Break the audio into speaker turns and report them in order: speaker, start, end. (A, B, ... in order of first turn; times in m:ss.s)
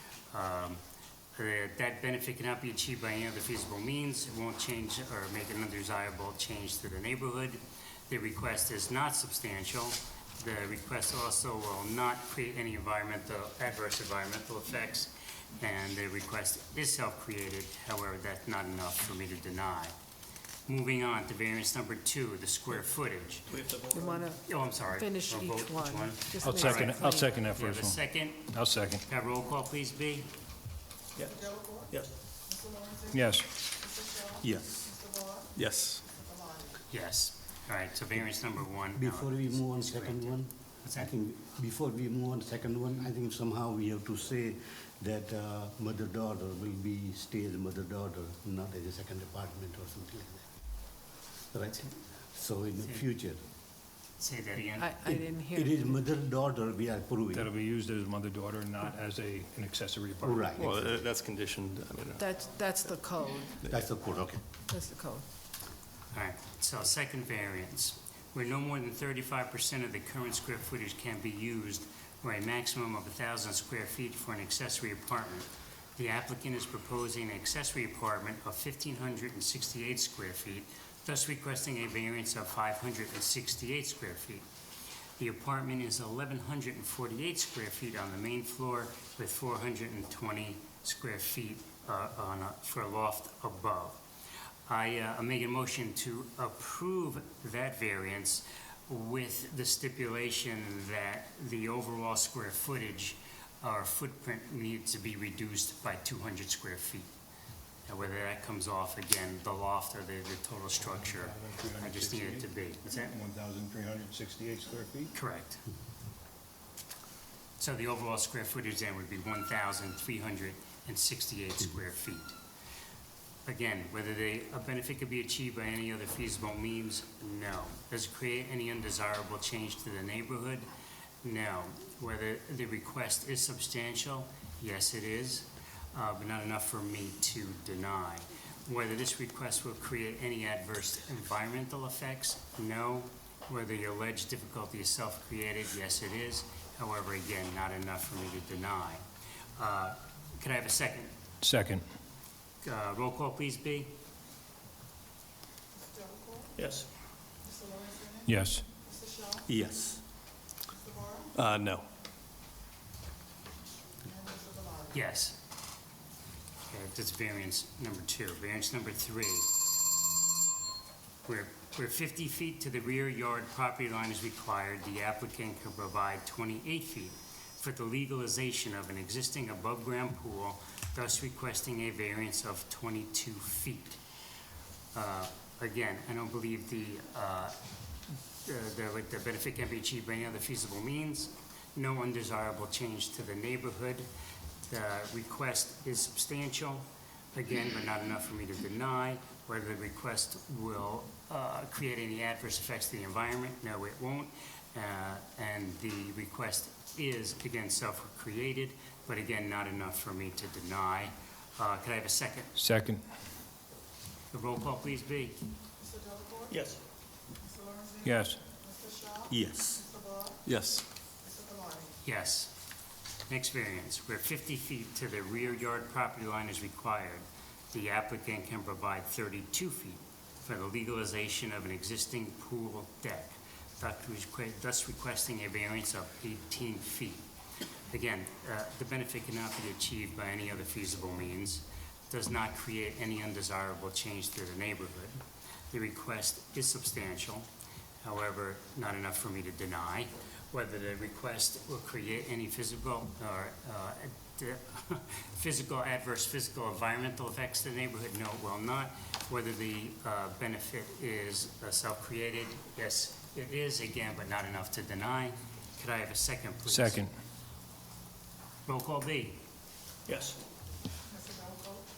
0:00.3-0:00.8 A
0:01.4-0:19.9 A
0:20.7-0:23.5 A
0:23.5-0:24.4 B
0:23.9-0:27.4 C
0:24.4-0:28.6 A
0:26.4-0:29.0 D
0:29.1-0:30.3 A
0:31.2-0:32.1 B
0:33.1-0:33.5 D
0:34.4-0:34.8 E
0:35.6-0:36.0 B
0:36.9-0:41.2 A
0:38.9-0:50.4 E
0:51.5-0:53.4 E
0:54.2-0:55.0 A
0:54.8-0:56.0 C
0:55.0-0:57.5 E
0:57.3-1:00.9 D
1:00.2-1:00.7 E
1:00.6-1:02.3 B
1:02.2-1:03.6 C
1:03.7-1:04.4 E
1:04.7-1:05.2 C
1:06.1-1:24.4 A
1:25.2-1:34.0 A
1:34.7-1:47.1 A
1:47.9-1:53.0 A
1:50.8-1:55.1 D
1:55.1-1:55.6 A
1:57.6-2:02.3 A
2:03.4-2:10.7 A
2:11.2-2:29.0 A
2:29.6-2:31.1 A
2:31.4-2:31.8 D
2:32.6-2:34.0 A
2:36.5-2:36.9 B
2:38.2-2:38.6 D
2:39.5-2:40.0 B
2:41.3-2:41.8 B
2:44.9-2:45.4 A
2:46.7-2:49.5 A
2:51.2-3:04.0 A
3:04.9-3:07.5 A
3:08.4-3:14.1 A
3:14.7-3:32.6 A
3:32.6-3:33.0 D
3:34.3-3:35.4 A
3:36.5-3:36.8 B
3:38.0-3:38.4 D
3:39.3-3:39.8 B
3:40.4-3:40.8 B
3:42.0-3:42.5 A
3:43.3-3:57.2 A
3:57.9-4:05.2 A
4:05.7-4:07.4 A
4:08.0-4:27.0 A
4:26.6-4:27.1 D
4:28.6-4:29.4 A
4:30.1-4:30.4 B